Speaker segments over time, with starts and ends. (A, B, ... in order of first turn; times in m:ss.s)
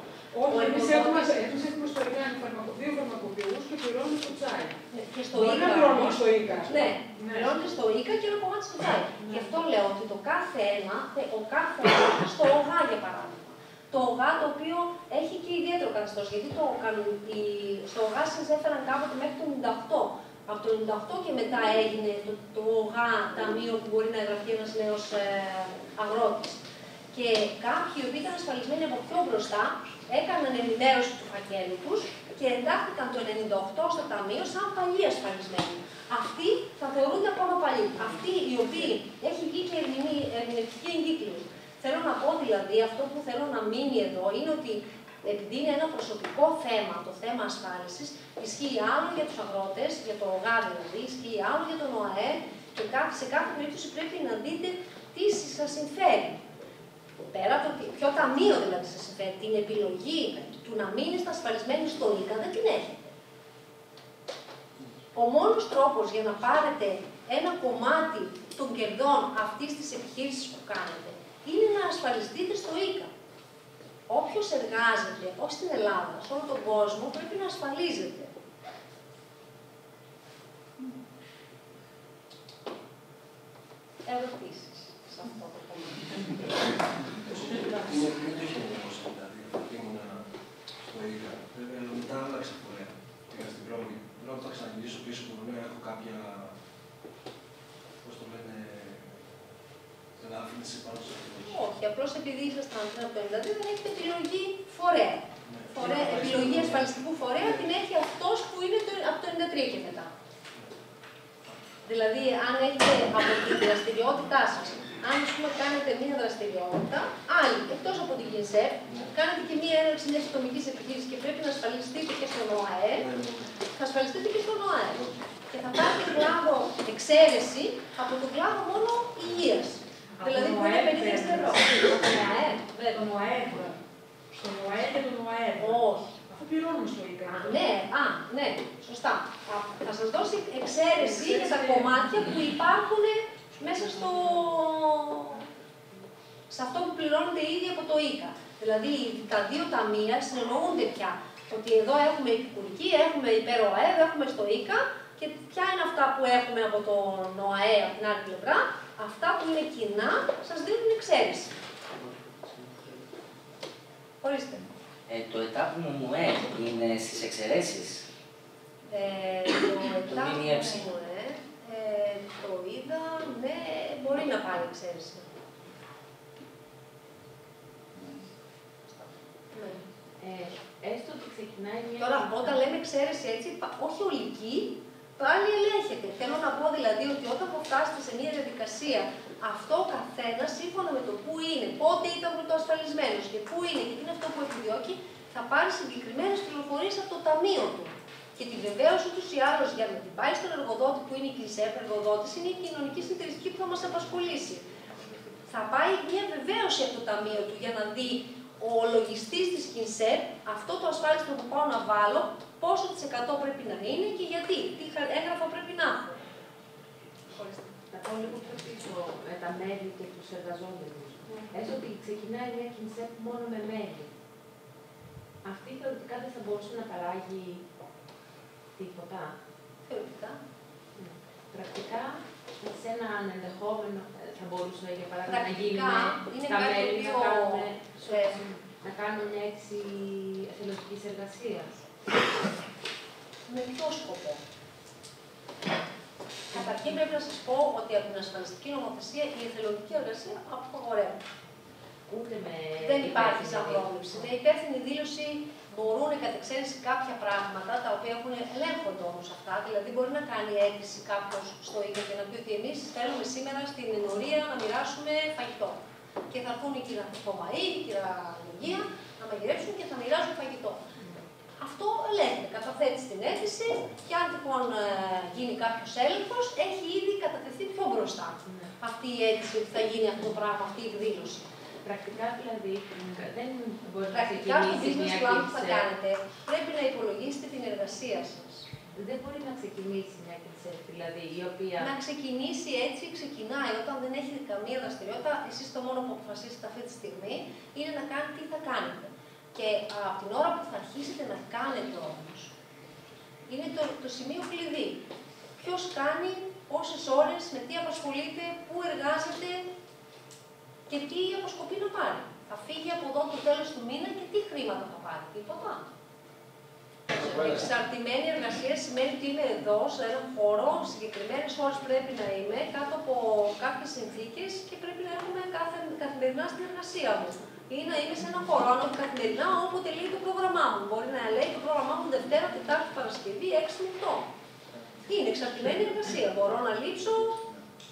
0:00.3-0:07.5 A
0:00.5-0:01.5 B
0:04.9-0:56.4 B
0:57.3-1:03.1 B
1:05.1-1:13.1 B
1:14.1-1:18.3 B
1:24.0-1:26.3 B
1:27.2-1:30.2 C
1:30.8-1:36.5 C
1:38.0-1:39.1 C
1:40.2-1:41.6 C
1:41.4-1:50.1 B
1:45.5-1:46.9 C
1:51.8-2:03.0 B
2:02.9-2:03.5 C
2:03.7-2:13.0 B
2:04.9-2:05.2 C
2:10.2-2:12.0 A
2:12.9-2:13.8 A
2:14.3-2:17.7 A
2:15.6-2:16.1 B
2:17.3-2:25.4 B
2:21.0-2:22.4 A
2:26.5-2:41.5 B
2:44.2-2:44.7 B
2:45.1-2:48.0 D
2:48.9-2:55.3 B
2:50.1-2:50.9 D
2:59.5-2:59.8 B
3:00.2-3:02.6 E
3:02.0-3:24.6 B
3:25.5-3:36.2 B
3:37.3-3:37.7 B
3:37.9-3:44.1 E
3:45.4-3:47.6 E
3:48.8-3:49.3 E
3:49.9-3:50.4 B
3:51.0-4:01.8 E
3:55.3-3:58.3 B
4:03.5-4:04.4 B
4:06.5-4:11.2 B
4:12.1-4:14.3 E
4:12.8-4:25.8 B
4:26.3-4:30.8 B
4:31.6-4:41.4 B
4:41.8-4:45.9 E
4:44.1-4:48.7 B
4:48.9-4:51.9 E
4:51.8-5:02.5 B
5:03.5-5:05.0 B
5:05.6-5:09.7 B
5:10.9-5:15.9 B
5:17.1-5:34.3 B
5:17.2-5:17.5 C
5:35.1-5:37.4 B